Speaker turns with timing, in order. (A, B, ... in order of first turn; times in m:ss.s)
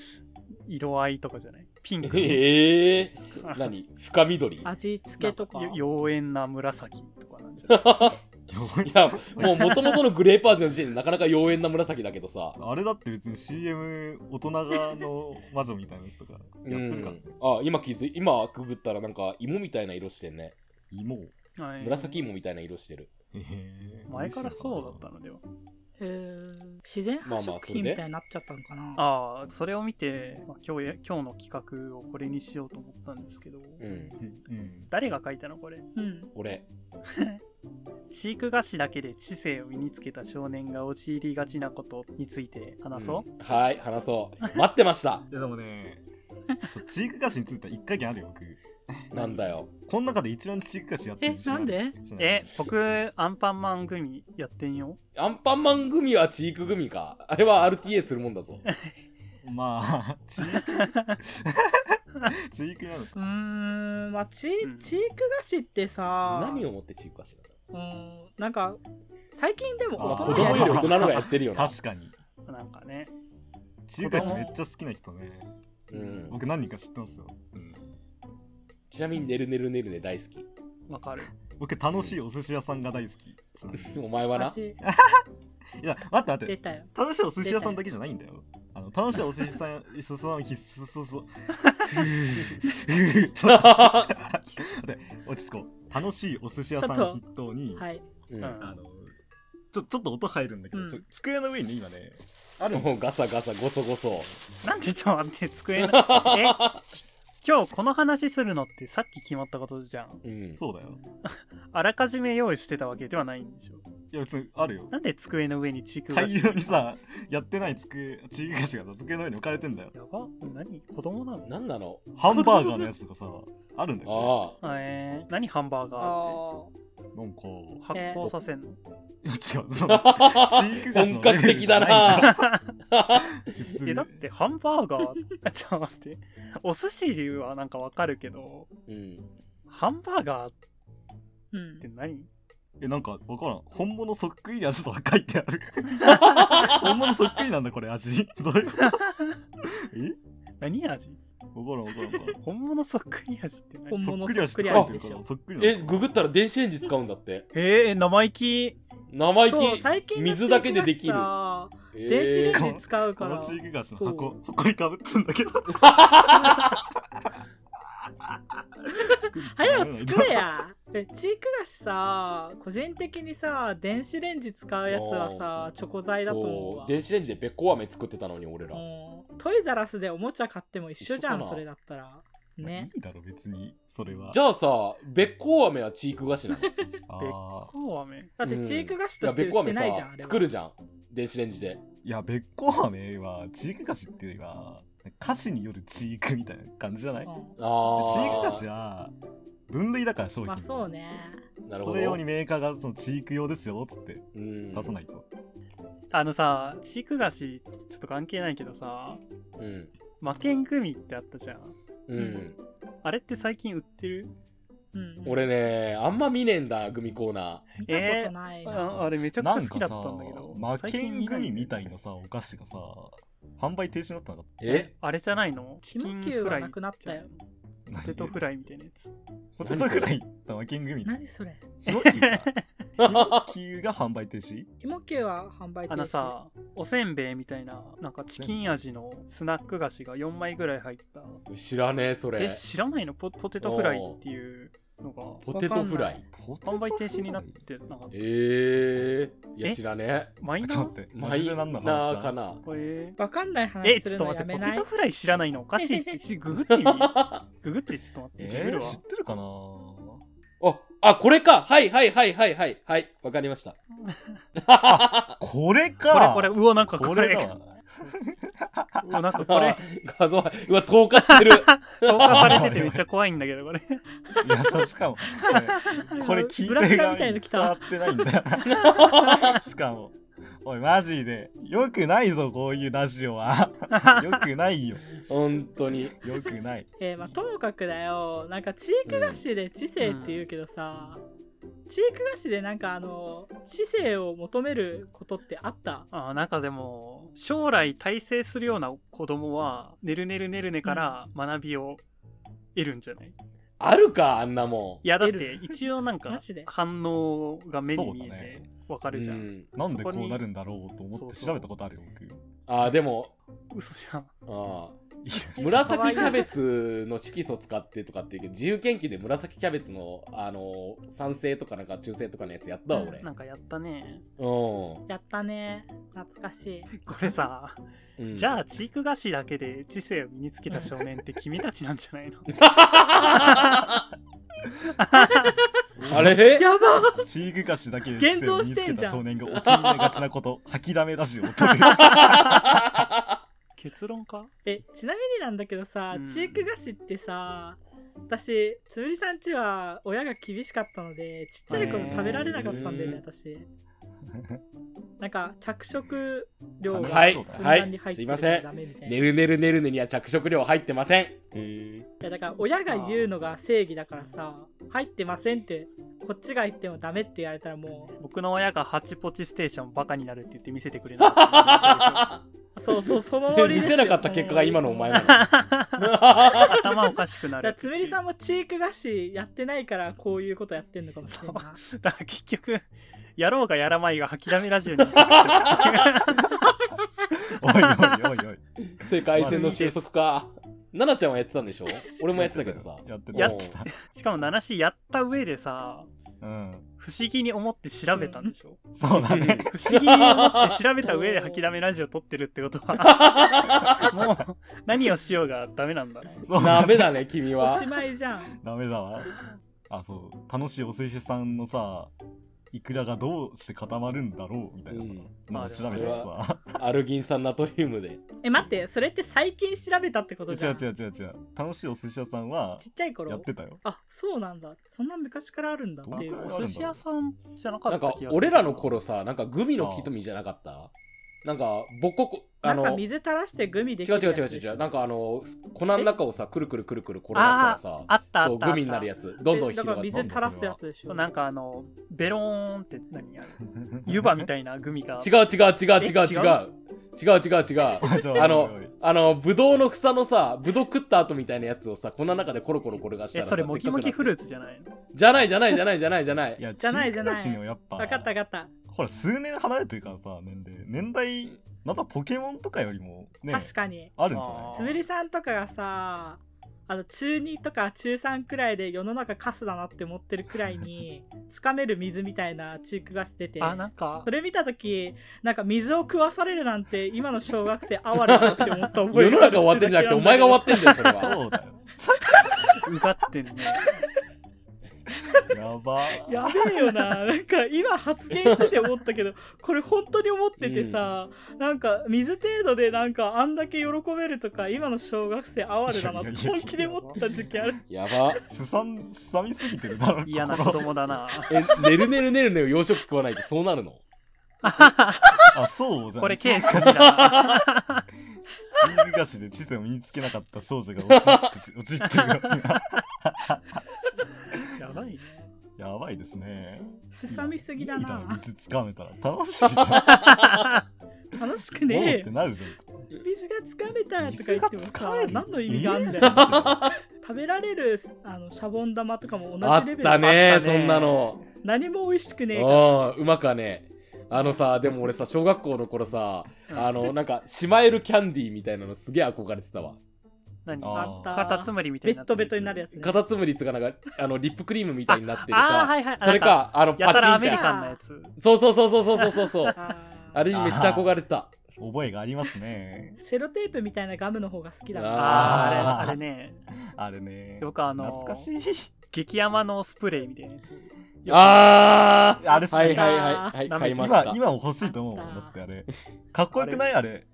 0:00.7-0:02.4 A
0:02.0-0:04.7 B
0:03.3-0:03.7 A
0:04.6-0:05.8 C
0:05.2-0:07.9 A
0:07.7-0:08.2 B
0:08.5-0:09.9 D
0:08.8-0:12.6 B
0:09.4-0:09.8 A
0:12.5-0:17.2 D
0:16.6-0:20.6 B
0:20.9-0:21.3 D
0:21.6-0:22.2 A
0:21.8-0:23.1 B
0:23.3-0:25.0 D
0:24.1-0:25.4 A
0:26.0-0:29.0 C
0:27.2-0:28.0 B
0:29.0-0:33.8 A
0:33.8-0:34.2 B
0:34.2-0:34.9 D
0:34.9-0:35.9 A
0:36.0-0:36.3 C
0:36.3-0:36.6 B
0:37.0-0:37.4 A
0:38.1-0:43.3 A
0:43.0-0:45.3 B
0:45.3-0:46.0 D
0:46.7-0:49.2 D
0:49.1-0:49.7 B
0:49.8-0:52.7 D
0:51.2-0:52.0 C
0:52.2-0:55.0 A
0:55.2-0:58.6 B
0:58.7-0:59.0 A
0:59.4-1:03.1 D
1:00.4-1:01.2 A
1:03.2-1:06.7 C
1:04.6-1:05.0 A
1:06.2-1:07.5 B
1:07.7-1:08.8 C
1:09.3-1:11.2 C
1:10.0-1:12.1 D
1:10.0-1:11.7 B
1:12.4-1:13.1 A
1:13.9-1:17.8 D
1:14.0-1:14.4 A
1:14.1-1:14.6 C
1:15.9-1:16.4 B
1:18.9-1:20.4 B
1:20.9-1:21.3 A
1:21.6-1:24.0 D
1:23.7-1:24.6 B
1:24.4-1:24.8 C
1:24.8-1:25.2 D
1:25.8-1:37.8 D
1:26.5-1:26.9 C
1:27.4-1:27.8 C
1:33.5-1:34.1 B
1:36.8-1:37.2 C
1:37.8-1:38.0 C
1:38.3-1:38.6 B
1:38.4-1:38.8 A
1:38.6-1:39.1 D
1:39.7-1:42.9 D
1:40.7-1:41.0 C
1:42.7-1:44.3 B
1:44.6-1:50.2 A
1:45.8-1:46.8 B
1:50.2-1:50.6 B
1:50.6-1:51.0 D
1:51.2-1:53.8 A
1:54.1-1:54.9 D
1:54.9-1:56.8 A
1:56.1-1:59.9 D
1:59.9-2:01.5 A
2:01.4-2:02.0 B
2:02.1-2:04.4 D
2:02.3-2:02.9 C
2:04.0-2:04.6 B
2:04.6-2:06.4 A
2:06.0-2:06.7 C
2:07.1-2:07.8 D
2:07.8-2:08.8 A
2:07.9-2:08.2 C
2:09.2-2:12.5 D
2:09.9-2:13.4 B
2:12.1-2:12.7 A
2:13.2-2:14.2 D
2:13.8-2:18.7 A
2:18.9-2:19.3 B
2:19.7-2:20.6 A
2:21.5-2:21.9 C
2:21.8-2:22.3 A
2:22.8-2:29.0 D
2:26.0-2:26.9 B
2:28.8-2:29.4 A
2:29.6-2:30.2 D
2:30.6-2:31.2 A
2:31.5-2:32.4 D
2:32.4-2:34.0 A
2:33.9-2:35.2 C
2:34.0-2:36.1 D
2:34.7-2:34.9 B
2:35.6-2:37.5 B
2:37.5-2:38.8 A
2:39.1-2:41.3 B
2:39.5-2:44.3 C
2:41.9-2:42.7 B
2:42.5-2:46.7 D
2:45.7-2:46.8 B
2:48.0-2:50.5 D
2:49.0-2:56.9 C
2:54.9-2:55.5 B
2:56.2-2:58.8 B
2:58.7-3:02.9 C
3:01.0-3:01.6 B
3:02.6-3:04.4 D
3:04.3-3:06.7 B
3:07.1-3:07.7 D
3:07.2-3:08.3 A
3:08.4-3:10.5 C
3:08.4-3:11.8 B
3:12.0-3:17.3 D
3:17.2-3:17.5 C
3:17.6-3:18.6 B
3:17.9-3:19.1 D
3:19.7-3:20.8 D
3:20.5-3:21.4 C
3:21.6-3:22.2 B
3:21.8-3:25.2 D
3:24.3-3:24.9 B
3:26.1-3:29.2 A
3:29.6-3:29.9 B
3:30.2-3:31.7 A
3:32.1-3:32.6 B
3:32.2-3:32.4 C
3:33.0-3:34.3 A
3:34.9-3:35.5 C
3:35.2-3:37.7 B
3:37.8-3:39.0 C
3:37.8-3:41.8 A
3:39.4-3:44.6 D
3:44.6-3:44.9 B
3:44.7-3:47.4 A
3:45.9-3:47.3 C
3:47.9-3:48.4 D
3:48.0-3:49.1 A
3:49.6-3:51.2 D
3:49.6-3:50.1 B
3:51.0-3:51.6 C
3:51.8-3:54.7 D
3:51.9-3:52.6 A
3:53.0-3:53.5 B
3:54.8-3:56.3 C
3:55.9-4:01.4 A
3:58.4-3:58.7 D
4:01.5-4:02.6 B
4:02.4-4:05.4 A
4:03.6-4:04.2 B
4:05.4-4:06.2 B
4:05.5-4:06.2 C
4:06.3-4:07.6 D
4:06.6-4:08.2 A
4:08.1-4:10.3 B
4:10.4-4:11.0 A
4:10.6-4:12.4 D
4:11.1-4:12.6 B
4:12.6-4:13.2 A
4:13.2-4:14.9 C
4:13.8-4:19.0 A
4:15.8-4:16.2 C
4:16.6-4:17.4 B
4:18.4-4:20.2 D
4:20.6-4:23.8 B
4:24.0-4:24.4 A
4:24.6-4:25.4 B
4:24.8-4:29.3 D
4:26.1-4:27.5 A
4:29.0-4:29.8 A
4:29.4-4:32.7 B
4:31.2-4:34.0 A
4:32.2-4:33.0 D
4:34.4-4:45.1 D
4:34.4-4:38.3 C
4:38.6-4:39.6 B
4:43.9-4:44.3 A
4:45.3-4:46.2 B
4:46.2-4:46.9 D
4:47.0-4:51.2 C
4:49.1-4:49.4 B
4:50.0-4:50.4 A
4:51.9-4:56.1 C
4:56.1-5:02.0 A
5:00.8-5:01.1 C
5:02.7-5:03.3 A
5:03.8-5:05.0 B
5:05.0-5:10.4 A
5:05.2-5:05.8 C
5:06.3-5:06.7 C
5:07.8-5:08.6 D
5:09.1-5:09.6 B
5:09.7-5:12.4 D
5:11.1-5:11.7 A
5:12.7-5:13.3 B
5:13.7-5:14.3 A
5:14.4-5:15.0 B
5:15.2-5:16.0 D
5:15.3-5:16.4 A
5:15.6-5:16.5 C
5:15.6-5:23.3 B
5:22.9-5:23.2 C
5:23.2-5:24.2 A
5:24.4-5:25.0 B
5:25.1-5:26.9 C
5:26.9-5:27.8 A
5:28.2-5:28.6 B
5:28.3-5:32.5 A
5:32.5-5:34.0 B
5:33.2-5:33.8 A
5:35.0-5:35.5 A
5:35.1-5:37.3 C
5:36.0-5:36.4 D
5:36.1-5:36.7 B
5:37.1-5:42.6 D
5:38.2-5:39.2 C
5:39.5-5:40.2 B
5:41.9-5:43.3 B
5:43.8-5:44.5 A
5:44.6-5:53.6 C
5:46.1-5:46.7 A
5:51.7-5:52.5 A
5:51.8-5:53.2 B
5:52.1-5:52.9 D
5:54.3-5:54.6 D
5:55.2-5:59.2 C
5:56.8-5:57.8 D
5:57.0-6:01.4 B
6:01.5-6:02.1 D
6:02.2-6:08.1 C
6:02.9-6:03.3 A
6:08.2-6:12.3 A
6:11.2-6:12.4 B
6:12.8-6:15.4 C
6:13.0-6:16.9 B
6:15.2-6:18.2 A
6:17.6-6:21.8 C
6:21.3-6:26.6 A
6:25.1-6:26.1 B
6:27.4-6:29.8 D
6:27.8-6:28.1 A
6:28.9-6:33.7 B
6:29.3-6:30.1 A
6:32.3-6:33.9 D
6:33.3-6:36.1 A
6:36.4-6:36.8 D
6:37.0-6:38.8 A
6:38.1-6:38.5 C
6:38.9-6:39.7 D
6:39.2-6:40.8 B
6:39.6-6:46.5 A
6:41.0-6:41.6 C
6:43.0-6:44.1 B
6:46.4-6:47.2 D
6:46.6-6:47.9 B
6:47.6-6:48.5 C
6:48.5-6:52.1 D
6:52.7-6:56.8 D
6:54.9-6:55.3 B
6:55.5-6:56.3 A
6:55.9-6:58.2 B
6:58.4-7:00.8 C
7:00.5-7:03.8 D
7:02.8-7:06.7 C
7:06.0-7:07.0 D
7:06.1-7:08.9 A
7:07.9-7:10.9 B
7:09.8-7:10.1 D
7:11.4-7:13.0 B
7:12.6-7:14.9 C
7:14.0-7:20.5 B
7:17.3-7:19.1 A
7:19.4-7:21.3 C
7:20.1-7:20.8 D
7:21.1-7:25.3 A
7:23.8-7:24.4 D
7:25.2-7:34.3 B
7:26.0-7:26.6 A
7:28.0-7:28.9 D
7:33.3-7:34.9 A
7:35.1-7:36.6 B
7:36.6-7:38.3 D
7:36.8-7:38.7 C
7:38.9-7:45.0 D
7:43.5-7:44.1 C
7:44.3-7:45.0 A
7:44.7-8:01.4 C
7:53.6-7:54.3 A
7:58.1-8:01.4 B
8:01.0-8:02.8 D
8:02.3-8:02.8 C
8:02.8-8:03.9 A
8:05.3-8:07.0 D
8:06.2-8:18.4 C
8:08.3-8:08.8 B
8:10.6-8:11.0 B
8:15.9-8:17.0 D
8:16.8-8:17.2 A
8:17.9-8:18.4 B
8:18.4-8:21.1 D
8:20.2-8:21.6 A
8:21.5-8:24.0 B
8:24.6-8:25.6 A
8:25.5-8:27.2 D
8:26.2-8:28.0 A
8:26.7-8:27.6 B
8:28.7-8:33.8 D
8:31.1-8:31.5 B
8:34.8-8:35.3 A
8:35.8-8:40.4 D
8:37.1-8:38.4 C
8:39.9-8:40.5 B
8:40.3-8:40.8 A
8:41.3-8:42.3 C
8:41.8-8:43.1 D
8:43.2-8:46.5 C
8:44.2-8:46.8 D
8:46.2-8:47.0 B
8:47.2-8:50.7 C
8:49.6-8:51.4 B
8:50.3-8:51.4 A
8:51.6-8:52.9 C
8:52.5-9:00.0 B
8:56.7-8:57.1 A
9:00.6-9:02.9 A
9:00.8-9:01.5 D
9:00.9-9:03.2 C
9:03.0-9:07.7 B
9:05.1-9:08.3 A
9:07.1-9:08.0 C
9:08.4-9:09.8 B
9:09.7-9:10.4 C
9:10.3-9:11.6 B
9:10.5-9:11.1 D
9:11.8-9:13.2 D
9:13.2-9:15.8 C
9:14.9-9:16.0 B
9:15.1-9:16.6 A
9:15.3-9:16.2 D
9:16.9-9:18.9 D
9:17.6-9:18.5 A
9:19.1-9:21.8 A
9:21.3-9:24.4 B
9:22.4-9:23.2 D
9:22.4-9:23.6 C
9:23.6-9:24.2 A
9:23.9-9:27.2 D
9:24.8-9:25.5 C
9:26.5-9:26.9 A